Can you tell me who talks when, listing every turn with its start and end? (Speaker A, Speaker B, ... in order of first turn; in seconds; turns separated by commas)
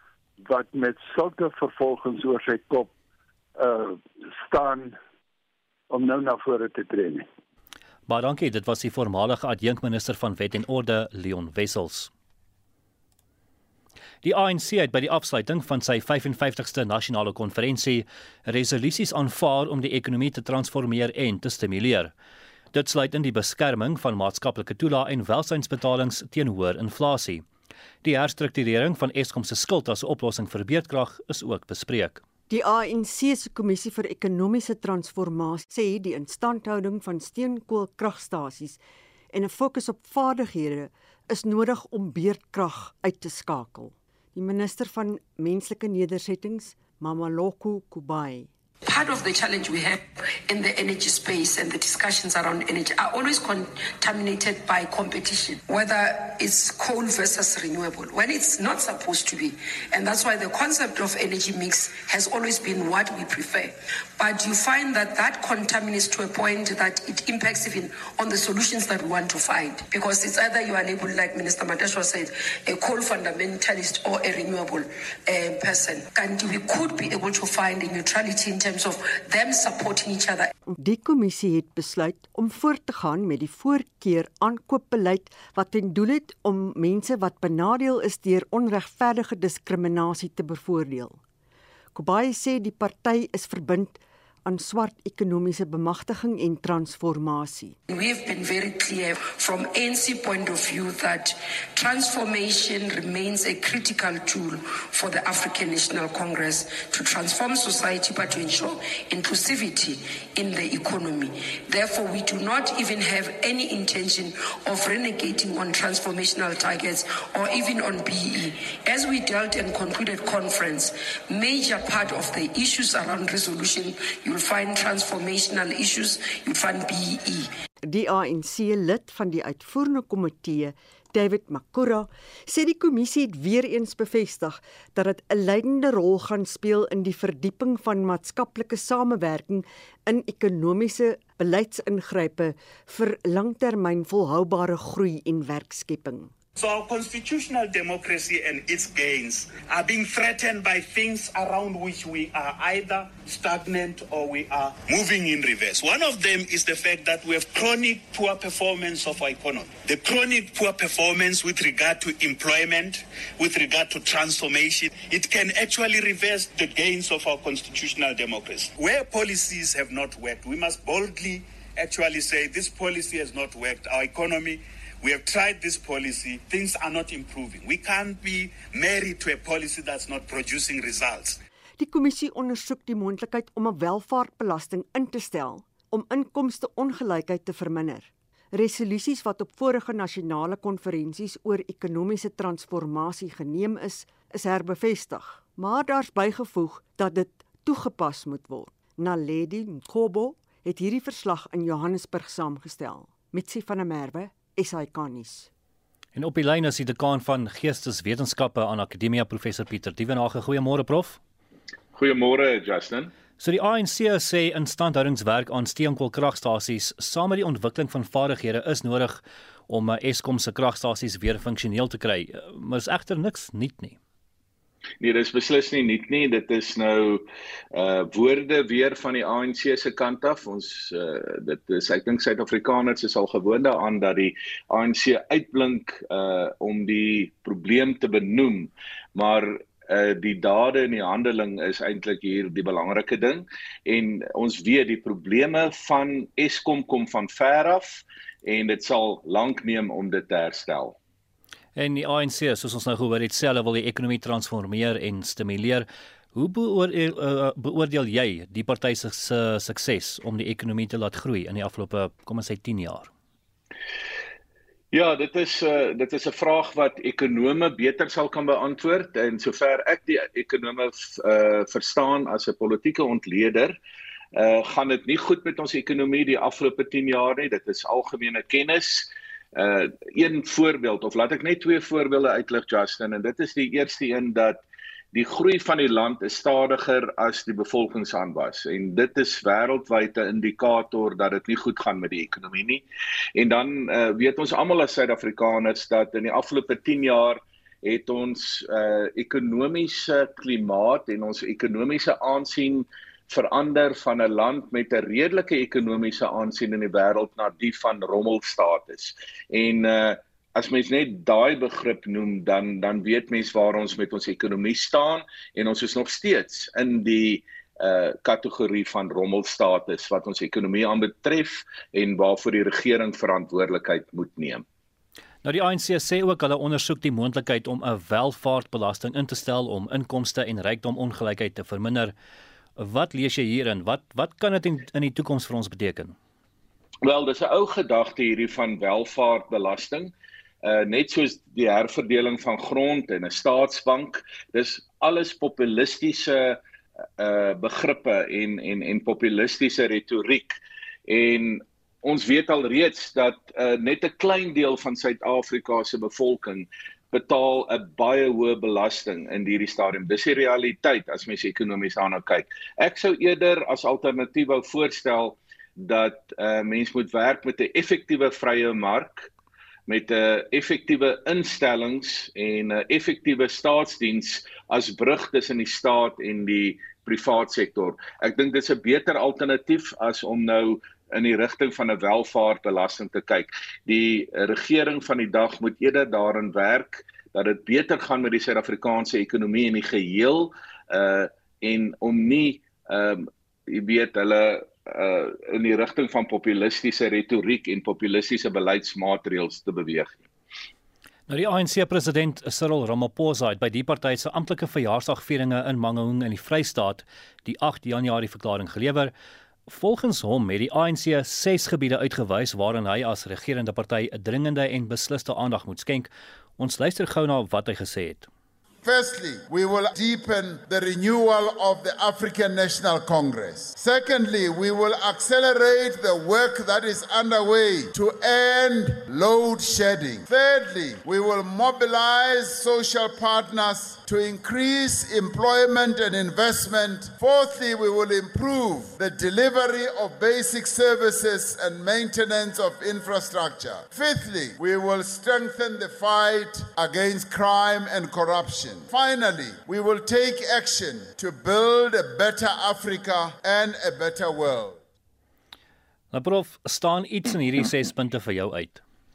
Speaker A: 0.4-2.9, Speaker A: 3.6-5.0, Speaker A: 5.9-7.3, Speaker B: 8.1-12.1, Speaker B: 14.2-22.1, Speaker B: 22.7-27.5, Speaker B: 28.0-32.2, Speaker C: 32.5-38.8, Speaker C: 39.3-48.5, Speaker D: 48.8-80.5, Speaker C: 80.7-91.2, Speaker C: 92.0-97.8, Speaker D: 97.9-127.5, Speaker C: 127.8-146.3, Speaker E: 146.6-181.4, Speaker C: 181.8-205.5, Speaker B: 206.2-211.2, Speaker F: 211.9-213.1, Speaker B: 213.4-224.0, Speaker F: 225.0-251.0, Speaker B: 251.8-263.1, Speaker F: 264.9-273.8, Speaker F: 274.3-292.8, Speaker F: 293.4-324.6, Speaker B: 325.4-332.1, Speaker B: 332.8-336.1, Speaker F: 337.0-346.6, Speaker F: 347.2-369.3, Speaker F: 369.9-400.2, Speaker B: 401.3-409.1, Speaker B: 409.7-418.3, Speaker G: 418.8-454.8, Speaker B: 456.1-458.8